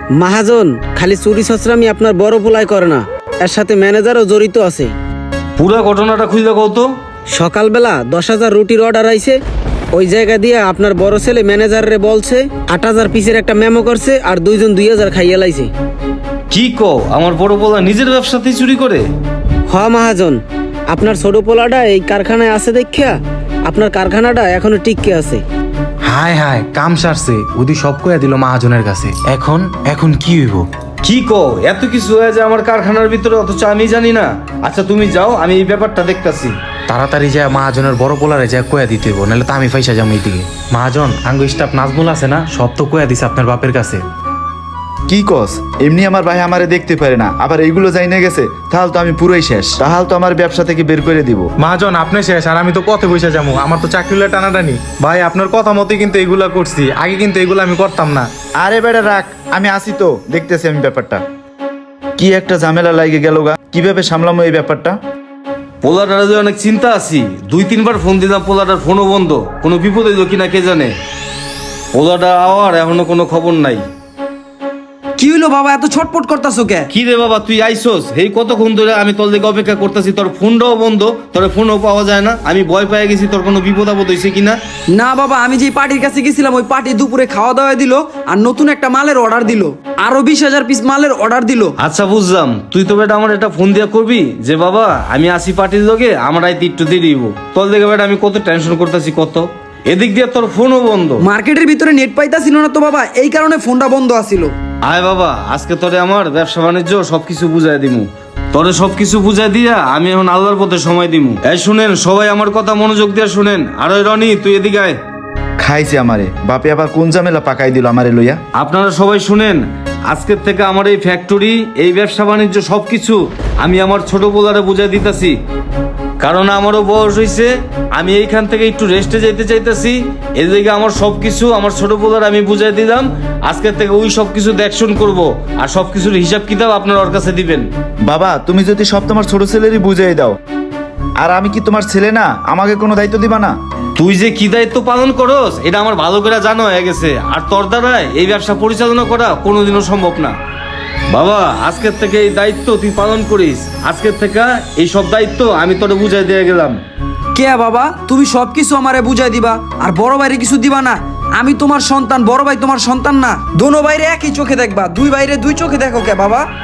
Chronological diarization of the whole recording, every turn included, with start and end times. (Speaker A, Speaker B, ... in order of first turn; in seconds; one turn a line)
Speaker A: 0.2-4.9
Speaker B: 5.6-6.9
Speaker A: 7.3-9.4
Speaker A: 9.9-15.7
Speaker B: 16.5-19.1
Speaker A: 19.7-25.4
Speaker C: 26.0-30.7
Speaker B: 31.0-36.6
Speaker C: 36.9-44.0
Speaker D: 45.1-51.5
Speaker C: 51.6-58.3
Speaker D: 58.6-61.2
Speaker D: 62.2-65.0
Speaker B: 65.8-70.9
Speaker B: 71.9-73.8
Speaker E: 75.2-76.9
Speaker B: 76.9-84.6
Speaker E: 84.9-91.8
Speaker B: 91.8-101.2
Speaker E: 101.2-104.5
Speaker B: 104.8-115.0
Speaker D: 115.6-118.4
Speaker B: 118.6-125.4
Speaker B: 126.2-137.7
Speaker D: 138.1-140.4
Speaker D: 141.2-143.5
Speaker B: 144.0-150.3
Speaker B: 151.1-156.8
Speaker E: 157.3-166.4